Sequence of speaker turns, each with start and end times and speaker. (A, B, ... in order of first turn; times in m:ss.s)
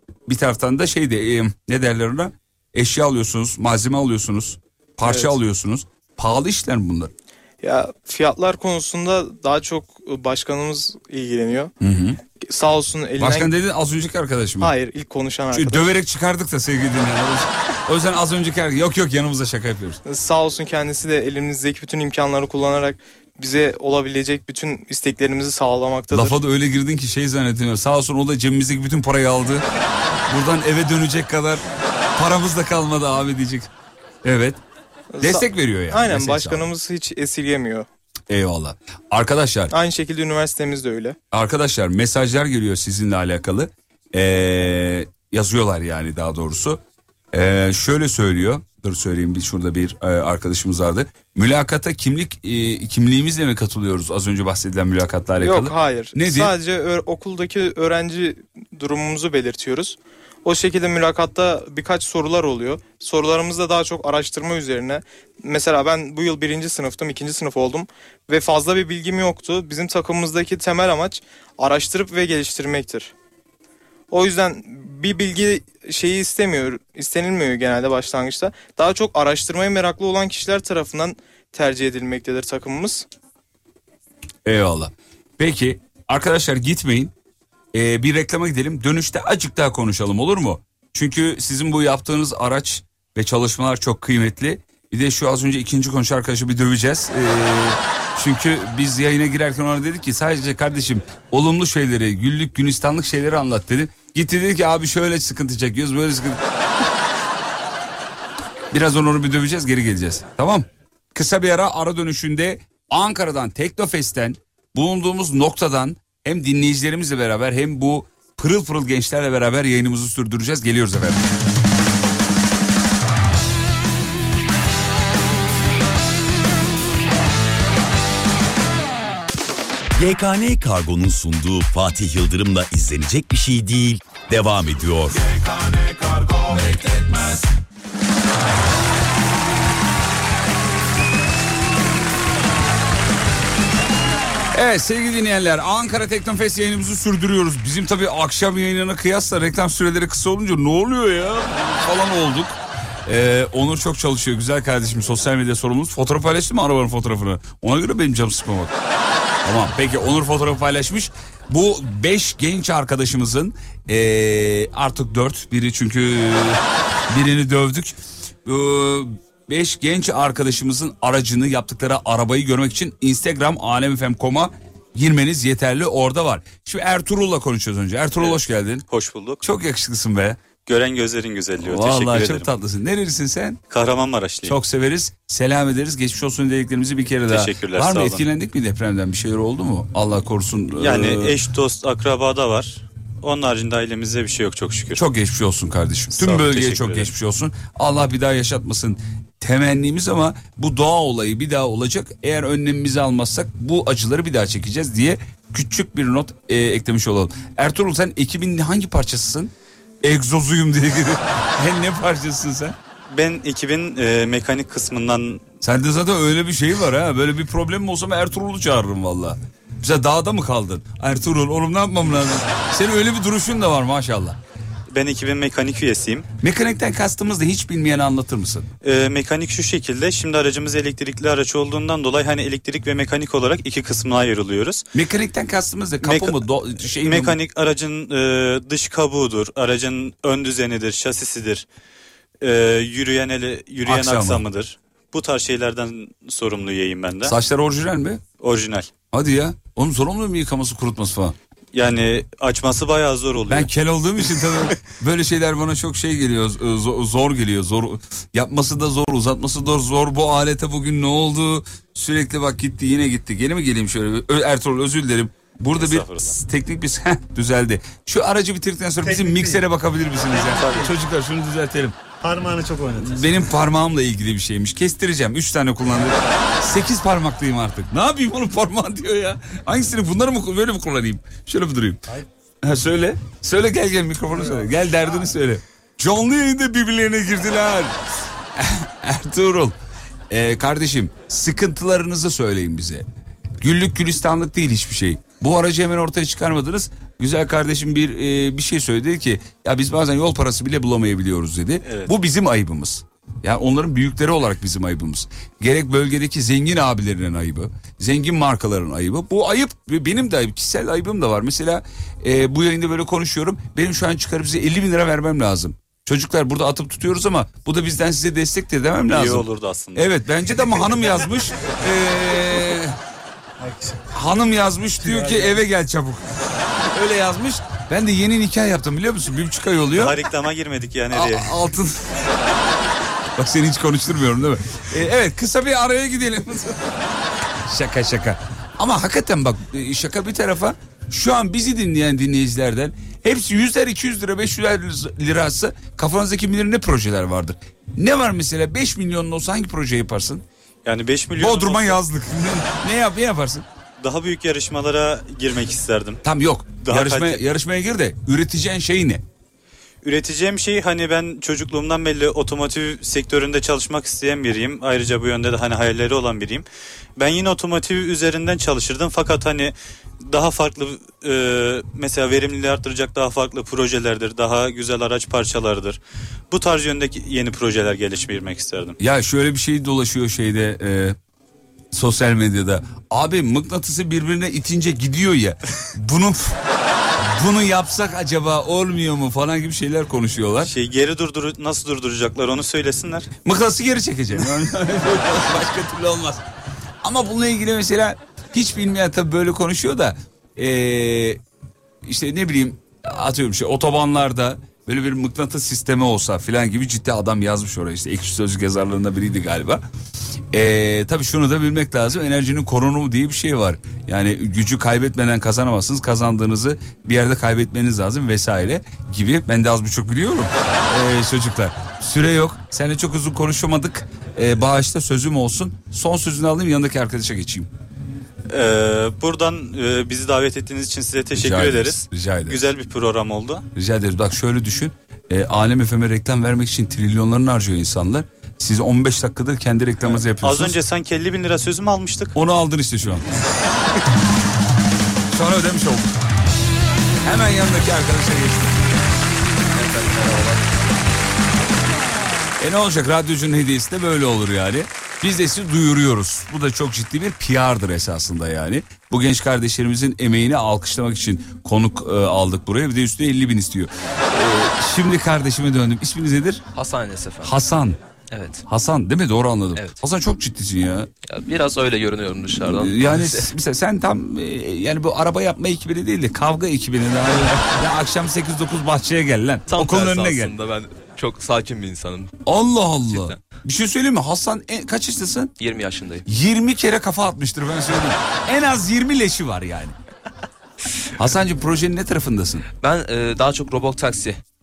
0:00.3-0:07.1 A
0:05.0-0:05.3 B
0:07.6-0:11.7 B
0:11.8-0:12.2 A
0:12.4-0:13.5 B
0:13.2-0:14.7 A
0:14.6-0:15.9 B
0:15.5-0:20.0 A
0:20.1-0:26.4 B
0:26.1-0:29.6 A
0:30.3-0:31.6 A
0:32.2-0:33.7 A
0:34.2-0:34.6 A
0:35.1-0:37.9 B
0:35.2-0:36.7 A
0:38.3-0:39.7 A
0:39.7-0:41.2 B
0:41.3-0:46.8 A
0:47.3-0:56.5 A
0:55.4-1:13.1 B
1:14.1-1:23.1 B
1:24.4-1:27.1 A
1:27.7-1:46.4 A
1:48.7-2:01.2 A
2:10.0-2:15.3 C
2:24.5-2:38.7 A
2:39.4-2:58.8 A
2:58.2-2:59.4 D
2:59.4-3:00.4 A
3:00.6-3:02.5 D
3:01.6-3:03.6 A
3:03.7-3:04.6 D
3:04.5-3:11.4 A
3:07.3-3:08.3 D
3:10.8-3:15.0 D
3:14.9-3:32.8 A
3:16.1-3:17.1 D
3:33.1-3:35.4 D
3:35.6-3:44.4 A
3:44.9-3:46.3 D
3:46.4-3:48.7 A
3:48.8-3:54.8 D
3:54.9-3:57.4 A
3:56.0-4:01.7 D
4:02.4-4:07.3 D
4:03.9-4:04.5 A
4:07.2-4:08.2 A
4:08.4-4:08.9 D
4:09.1-4:11.4 A
4:11.7-4:13.7 D
4:13.5-4:32.0 A
4:25.7-4:26.3 D
4:29.0-4:29.7 E
4:30.3-4:31.0 E
4:32.2-4:33.6 E
4:33.0-4:42.0 A
4:42.6-4:48.0 A
4:44.3-4:44.8 E
4:48.6-4:49.8 A
4:50.3-4:53.0 A
4:53.6-5:23.0 A
5:01.8-5:02.1 D
5:19.0-5:20.1 D
5:23.6-5:24.0 E
5:24.1-5:30.2 A
5:25.0-5:25.7 E
5:29.9-5:31.6 D
5:31.1-5:32.2 A
5:33.4-5:36.9 A
5:37.6-5:50.4 A
5:50.8-5:52.0 D
5:51.4-5:53.7 A
5:54.0-5:56.2 D
5:56.2-5:59.2 A
5:56.8-5:57.4 D
6:00.0-6:06.6 D
6:07.2-6:16.0 D
6:16.5-6:19.0 D
6:19.0-6:21.2 A
6:21.9-6:26.6 A
6:27.2-6:30.7 A
6:30.6-6:33.3 D
6:33.4-6:36.4 A
6:37.0-6:41.4 A
6:42.0-6:49.8 A
6:50.5-7:07.7 A
7:08.5-7:13.6 D
7:11.3-7:12.7 A
7:13.7-7:20.8 A
7:20.4-7:22.4 D
7:22.4-7:23.3 A
7:25.3-7:26.2 A
7:27.2-7:28.8 A
7:29.7-7:30.6 F
7:32.6-7:46.6 A
7:46.7-7:47.5 F
7:47.4-7:48.0 A
7:48.3-7:48.6 F
7:48.7-7:51.1 A
7:49.8-7:50.0 F
7:51.3-7:53.5 F
7:52.6-8:00.5 A
7:59.7-8:02.4 F
8:02.4-8:05.5 A
8:03.1-8:03.4 F
8:05.6-8:06.2 F
8:06.2-8:10.0 A
8:11.2-8:12.6 A
8:12.7-8:14.4 F